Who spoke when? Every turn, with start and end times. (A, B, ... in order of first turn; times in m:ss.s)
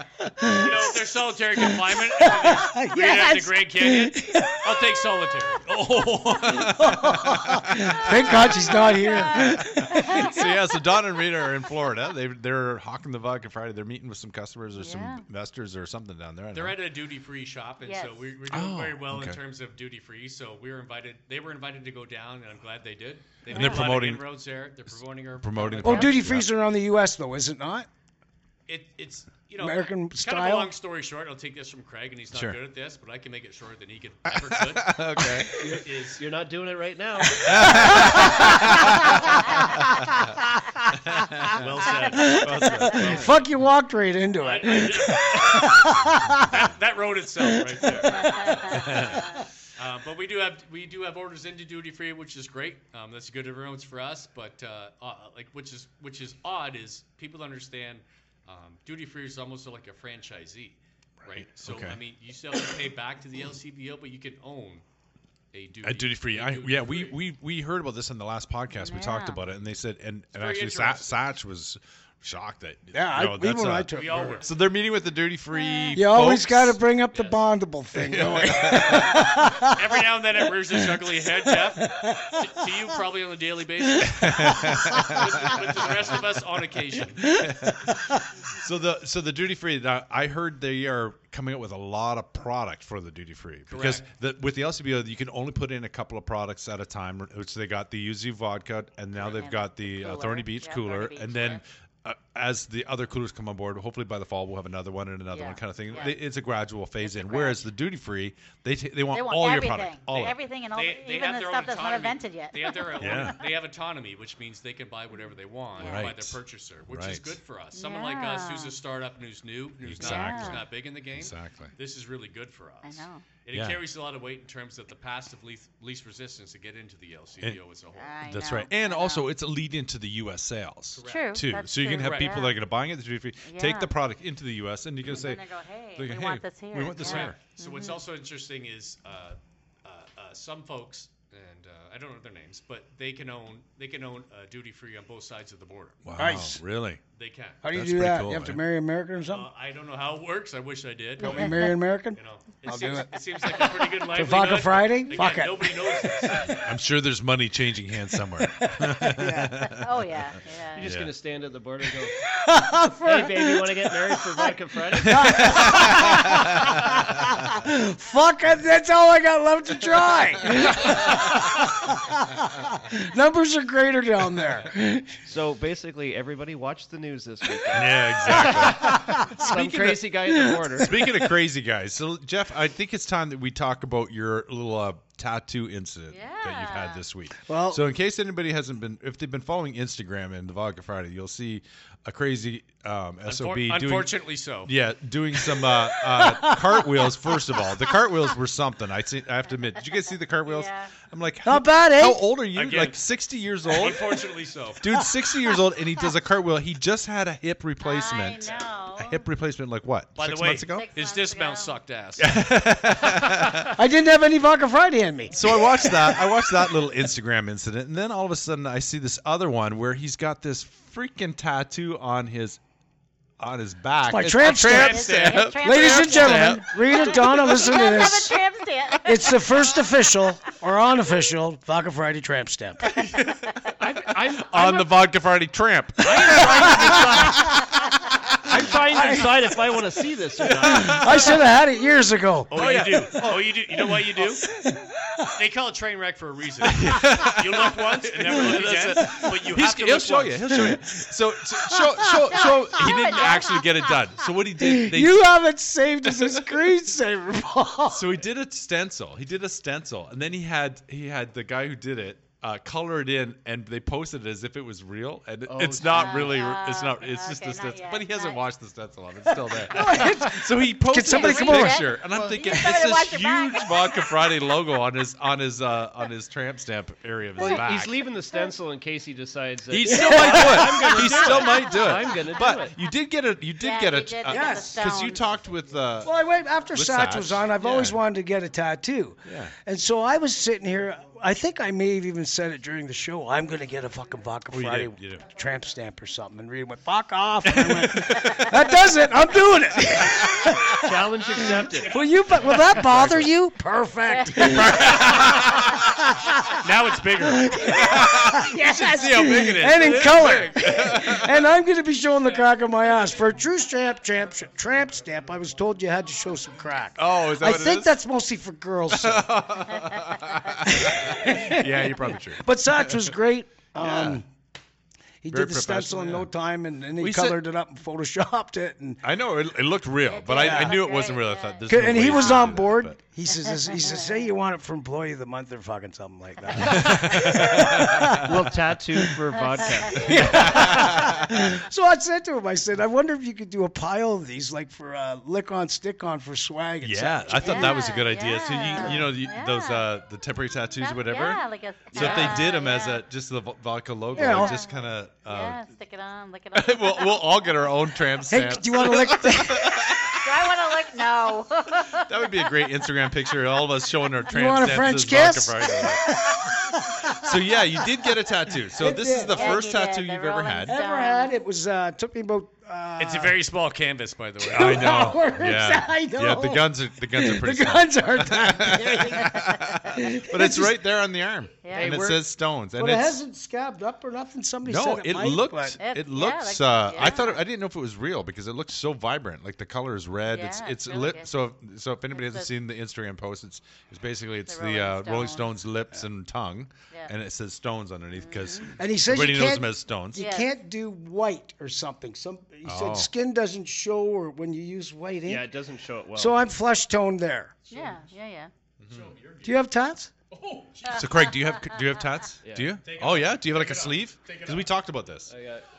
0:00.3-0:00.8 A
0:00.5-0:05.7 B
0:01.6-0:04.9 A
0:05.7-0:16.8 C
0:06.5-0:10.4 A
0:09.0-0:10.5 D
0:14.8-0:15.2 D
0:16.5-0:26.2 B
0:17.8-0:18.2 D
0:18.5-0:19.4 C
0:23.5-0:24.2 C
0:23.5-0:23.9 D
0:25.4-0:26.5 C
0:25.8-0:27.9 A
0:28.7-0:36.2 B
0:29.6-0:30.7 A
0:34.3-0:35.6 C
0:35.5-0:39.0 E
0:37.4-0:39.8 A
0:37.4-0:40.4 C
0:41.1-0:43.3 C
0:41.5-0:43.5 B
0:42.0-0:46.6 A
0:44.4-1:04.8 B
0:47.5-0:48.6 A
0:48.0-0:49.4 D
0:48.7-0:49.2 C
1:01.2-1:02.0 C
1:05.5-1:07.2 B
1:05.8-1:16.8 C
1:08.8-1:09.4 D
1:10.3-1:11.1 B
1:12.9-1:14.5 A
1:13.9-1:14.5 B
1:15.5-1:16.0 D
1:16.0-1:19.9 A
1:18.0-1:19.4 C
1:19.6-1:27.4 B
1:20.8-1:22.5 A
1:24.0-1:25.7 C
1:24.7-1:25.2 A
1:27.3-1:50.4 C
1:33.7-1:34.1 B
1:39.1-1:41.6 D
1:45.3-1:46.2 D
1:47.0-1:47.7 D
1:49.1-1:53.3 D
1:50.8-2:08.2 B
1:53.0-1:53.4 C
1:55.8-1:56.1 D
1:55.8-1:57.3 C
1:57.7-1:58.8 D
1:59.8-2:01.7 C
2:00.0-2:00.6 D
2:02.8-2:03.2 D
2:03.5-2:03.8 C
2:07.9-2:09.3 D
2:08.2-2:15.4 C
2:10.9-2:12.5 B
2:11.0-2:12.6 D
2:13.4-2:14.0 D
2:15.1-2:18.0 D
2:16.0-2:17.4 C
2:17.0-2:26.0 B
2:26.0-2:27.0 C
2:26.2-2:26.6 A
2:27.1-2:27.6 B
2:27.6-2:29.5 A
2:27.7-2:28.6 C
2:29.2-2:36.7 B
2:31.2-2:36.6 A
2:36.6-2:41.1 C
2:38.3-2:39.6 A
2:39.7-2:40.9 D
2:40.7-2:42.2 E
2:42.2-2:55.1 A
2:43.0-2:45.9 E
2:45.0-2:47.4 C
2:55.2-3:01.0 E
2:57.7-2:59.9 C
2:58.3-3:01.1 A
3:00.8-3:14.1 C
3:06.1-3:07.0 D
3:07.5-3:07.8 A
3:13.2-3:14.7 B
3:14.6-3:24.2 C
3:15.5-3:17.7 A
3:20.4-3:20.9 D
3:21.4-3:22.2 A
3:22.5-3:23.0 B
3:23.7-3:24.8 B
3:24.8-3:30.9 C
3:27.8-3:29.2 D
3:30.2-3:33.7 B
3:30.7-3:31.8 D
3:32.2-3:33.8 C
3:33.8-3:36.5 A
3:35.4-3:42.6 C
3:43.4-3:47.6 C
3:44.0-3:48.4 A
3:44.4-3:49.8 D
3:44.7-3:45.4 B
3:49.0-3:53.0 A
3:53.0-3:53.5 C
3:53.8-3:55.0 E
3:54.4-3:57.5 C
3:56.0-3:57.6 E
3:56.3-3:57.0 B
3:56.4-3:57.4 A
3:58.5-4:01.3 E
3:58.9-3:59.5 A
4:00.6-4:02.5 A
4:00.6-4:01.4 C
4:02.5-4:04.5 B
4:02.5-4:03.4 C
4:04.6-4:05.1 A
4:05.3-4:10.5 B
4:06.7-4:15.3 C
4:10.6-4:11.0 A
4:11.7-4:12.6 A
4:12.3-4:13.7 D
4:14.6-4:18.1 A
4:16.2-4:16.4 C
4:17.9-4:38.0 C
4:25.5-4:26.4 E
4:25.9-4:28.4 D
4:29.4-4:32.0 A
4:31.0-4:34.0 D
4:37.4-4:42.8 E
4:37.4-4:37.6 D
4:39.7-4:46.2 C
4:39.8-4:41.2 A
4:41.2-4:42.0 D
4:43.6-4:45.2 D
4:44.3-4:44.9 A
4:46.0-5:06.0 A
4:46.7-4:48.0 C
4:49.2-4:49.5 C
4:54.5-4:55.3 C
4:57.5-4:58.4 C
5:00.8-5:02.0 E
5:02.8-5:03.3 E
5:02.9-5:03.2 C
5:04.1-5:04.6 D
5:04.4-5:05.8 C
5:06.6-5:07.6 B
5:07.4-5:19.3 A
5:07.7-5:11.4 C
5:09.9-5:10.2 B
5:17.0-5:17.9 C
5:18.9-5:23.1 C
5:20.6-5:24.3 A
5:23.8-5:24.2 C
5:25.2-5:29.0 A
5:25.3-5:26.3 C
5:27.0-5:27.4 C
5:29.0-5:33.0 C
5:30.1-5:32.6 D
5:30.3-5:30.8 A
5:31.7-5:39.1 A
5:33.3-5:34.2 D
5:36.5-5:38.4 C
5:38.2-5:40.7 E
5:39.6-5:40.2 D
5:39.8-5:48.0 A
5:40.0-5:41.5 C
5:46.8-5:55.6 C
5:47.4-5:49.9 D
5:48.7-5:49.1 A
5:50.8-5:53.0 D
5:52.0-5:52.4 B
5:54.1-5:54.6 A
5:54.2-5:57.7 D
5:56.6-6:00.6 C
5:58.3-5:59.9 A
6:00.2-6:02.8 D
6:01.9-6:06.0 C
6:04.3-6:08.1 A
6:07.1-6:10.8 C
6:08.7-6:09.6 A
6:09.3-6:11.3 D
6:10.7-6:13.4 A
6:13.0-6:15.2 B
6:14.4-6:19.4 A
6:14.5-6:23.2 C
6:19.2-6:19.8 D
6:19.9-6:20.8 A
6:21.6-6:22.0 D
6:21.7-6:22.2 E
6:22.8-6:25.8 A
6:24.6-6:40.3 C
6:25.8-6:27.4 D
6:30.3-6:31.3 D
6:32.1-6:32.5 D
6:34.5-6:35.5 D
6:38.2-6:38.7 D
6:38.7-6:45.5 A
6:40.2-6:40.5 D
6:42.6-6:43.1 C
6:45.2-6:46.4 E
6:46.2-6:47.5 A
6:47.7-6:48.5 D
6:48.8-6:49.1 C
6:48.9-6:49.6 B
6:49.4-6:50.1 A
6:50.3-6:51.1 B
6:50.9-6:55.3 C
6:50.9-6:51.2 D
6:52.4-6:52.8 E
6:52.8-6:54.7 B
6:55.3-6:55.7 E